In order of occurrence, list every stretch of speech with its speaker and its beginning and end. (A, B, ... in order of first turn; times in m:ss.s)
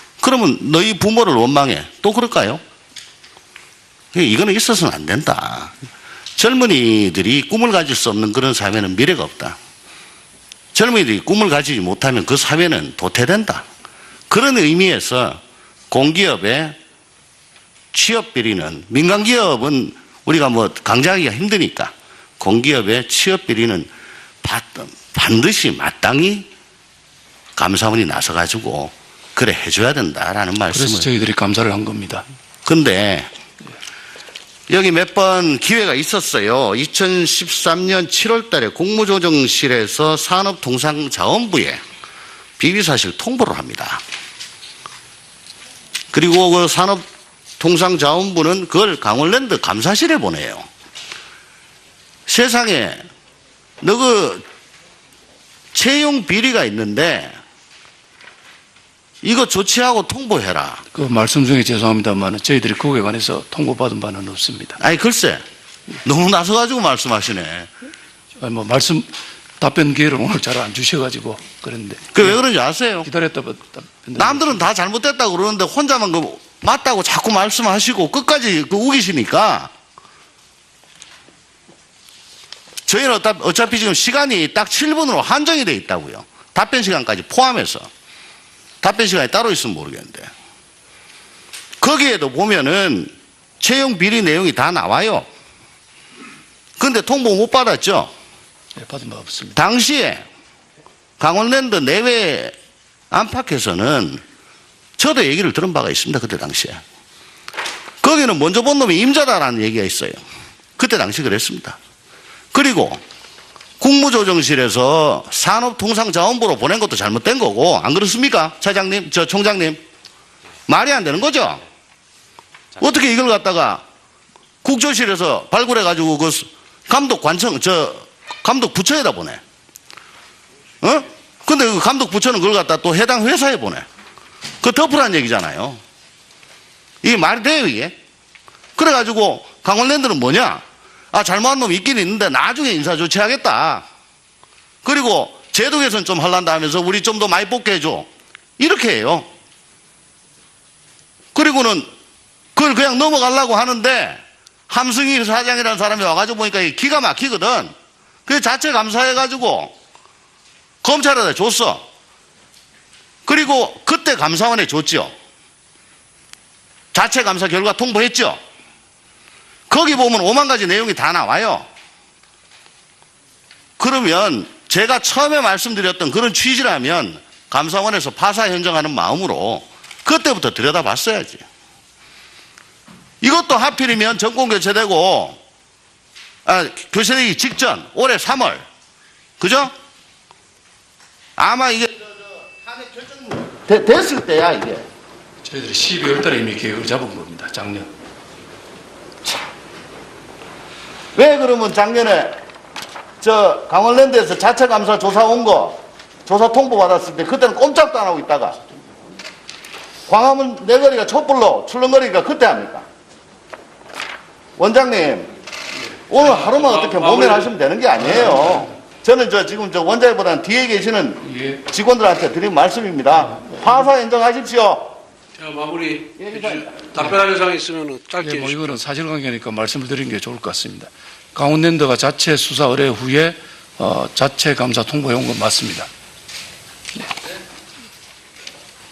0:00.2-0:02.6 A
0:04.1-0:05.7 A
0:06.4-0:09.6 A
0:10.7-0:13.6 A
0:14.3-0:16.8 A
0:17.9-0:23.9 A
0:24.4-0:26.5 A
0:27.6-0:31.1 A
0:30.7-0:32.2 B
0:32.6-0:33.3 A
0:34.7-0:41.8 A
0:42.6-0:44.0 A
0:46.1-0:47.0 A
0:47.6-0:50.7 A
0:52.3-0:53.0 A
0:53.8-0:54.4 A
0:55.7-0:57.4 A
0:59.2-1:00.8 A
1:00.9-1:04.8 B
1:04.8-1:05.4 A
1:06.0-1:07.7 A
1:08.4-1:09.1 B
1:09.6-1:12.4 B
1:12.1-1:13.1 A
1:13.0-1:14.6 B
1:14.2-1:19.7 A
1:22.9-1:27.9 A
1:28.8-1:30.3 A
1:31.8-1:35.2 A
1:36.8-1:38.1 A
1:38.8-1:39.6 B
1:39.6-1:40.2 A
1:41.2-1:42.5 A
1:43.1-1:44.2 A
1:45.0-1:46.8 A
1:48.0-1:50.2 A
1:50.8-1:51.8 A
1:52.5-1:53.0 A
1:53.8-1:59.8 A
2:00.7-2:01.6 A
2:02.8-2:03.8 A
2:04.6-2:09.4 A
2:10.8-2:13.8 A
2:14.6-2:15.8 A
2:17.0-2:17.9 A
2:18.8-2:23.8 A
2:24.8-2:28.1 A
2:28.6-2:29.3 A
2:31.3-2:31.9 A
2:32.5-2:37.7 A
2:38.2-2:39.7 A
2:40.8-2:41.8 A
2:43.2-2:45.1 A
2:46.9-2:48.4 A
2:49.7-2:51.7 A
2:53.8-3:01.4 A
3:03.2-3:05.4 A
3:06.4-3:08.6 A
3:09.4-3:09.7 A
3:11.4-3:14.8 A
3:15.4-3:17.9 B
3:21.2-3:22.4 A
3:23.2-3:28.6 A
3:30.1-3:32.8 A
3:34.6-3:35.3 A
3:36.1-3:45.0 A
3:36.4-3:37.3 C
3:41.2-3:41.6 B
3:45.4-3:48.4 C
3:46.2-3:46.7 A
3:48.2-3:55.9 B